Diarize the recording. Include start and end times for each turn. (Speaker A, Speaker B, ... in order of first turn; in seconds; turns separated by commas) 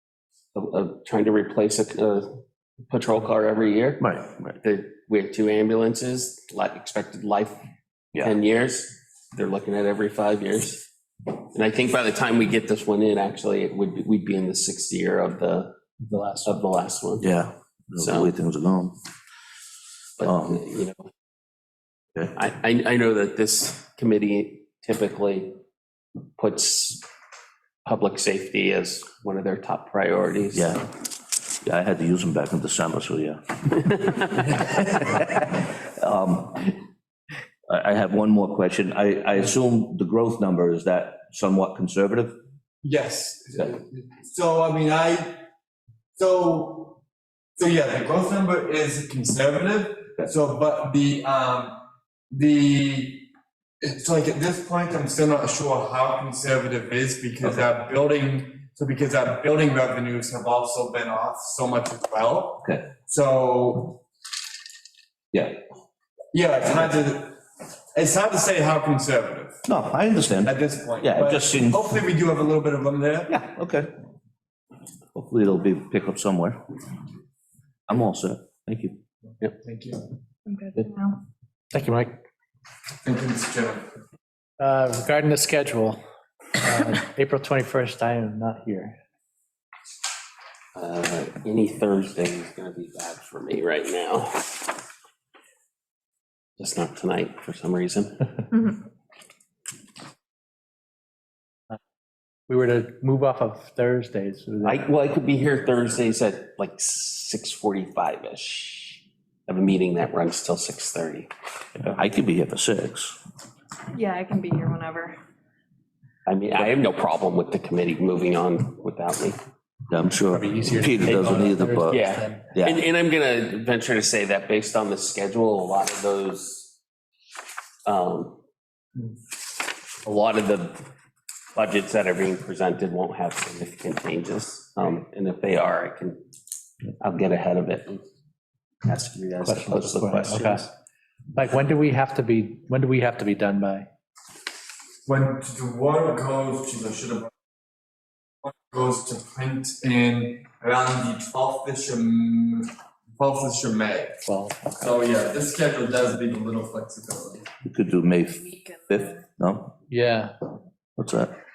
Speaker A: 0.5-7.6, Speaker B: 4.0-4.6, Speaker A: 8.1-10.9, Speaker A: 11.5-15.8, Speaker C: 16.0-16.7, Speaker A: 16.4-17.3, Speaker B: 17.2-19.0, Speaker A: 18.0-18.4, Speaker A: 20.2-21.1, Speaker B: 20.2-20.6, Speaker A: 22.4-25.6, Speaker A: 26.4-27.1, Speaker A: 27.9-30.8, Speaker B: 30.5-30.9, Speaker B: 31.6-33.5, Speaker A: 33.9-34.5, Speaker B: 35.1-36.7, Speaker B: 37.7-42.4, Speaker D: 42.8-45.4, Speaker D: 46.2-47.0, Speaker D: 47.6-64.0, Speaker B: 62.6-62.9, Speaker B: 65.3-65.6, Speaker D: 66.3-67.4, Speaker D: 68.0-69.7, Speaker B: 69.7-72.0, Speaker D: 70.4-73.4, Speaker B: 73.3-74.0, Speaker B: 75.2-76.6, Speaker B: 77.9-79.0, Speaker D: 79.6-80.0, Speaker E: 80.5-81.2, Speaker C: 81.7-82.2, Speaker D: 83.0-83.8, Speaker C: 84.6-86.0, Speaker C: 86.6-89.0, Speaker A: 90.8-94.7, Speaker A: 96.6-98.2, Speaker E: 98.5-98.8, Speaker C: 102.5-104.9, Speaker A: 104.6-112.0, Speaker B: 111.9-113.2, Speaker E: 113.9-115.2, Speaker A: 116.3-119.4, Speaker B: 119.9-122.0, Speaker C: 120.3-122.5, Speaker A: 121.1-126.8, Speaker B: 122.5-122.8, Speaker A: 127.8-128.4, Speaker A: 130.0-130.9, Speaker A: 131.6-136.2, Speaker A: 137.0-138.1, Speaker A: 138.8-140.7, Speaker C: 139.4-140.7, Speaker C: 141.3-143.9, Speaker D: 145.1-147.3, Speaker D: 148.4-154.2, Speaker C: 154.2-154.9, Speaker D: 154.8-157.5, Speaker B: 157.6-159.7, Speaker E: 158.2-159.2, Speaker C: 159.9-160.3, Speaker B: 161.0-161.3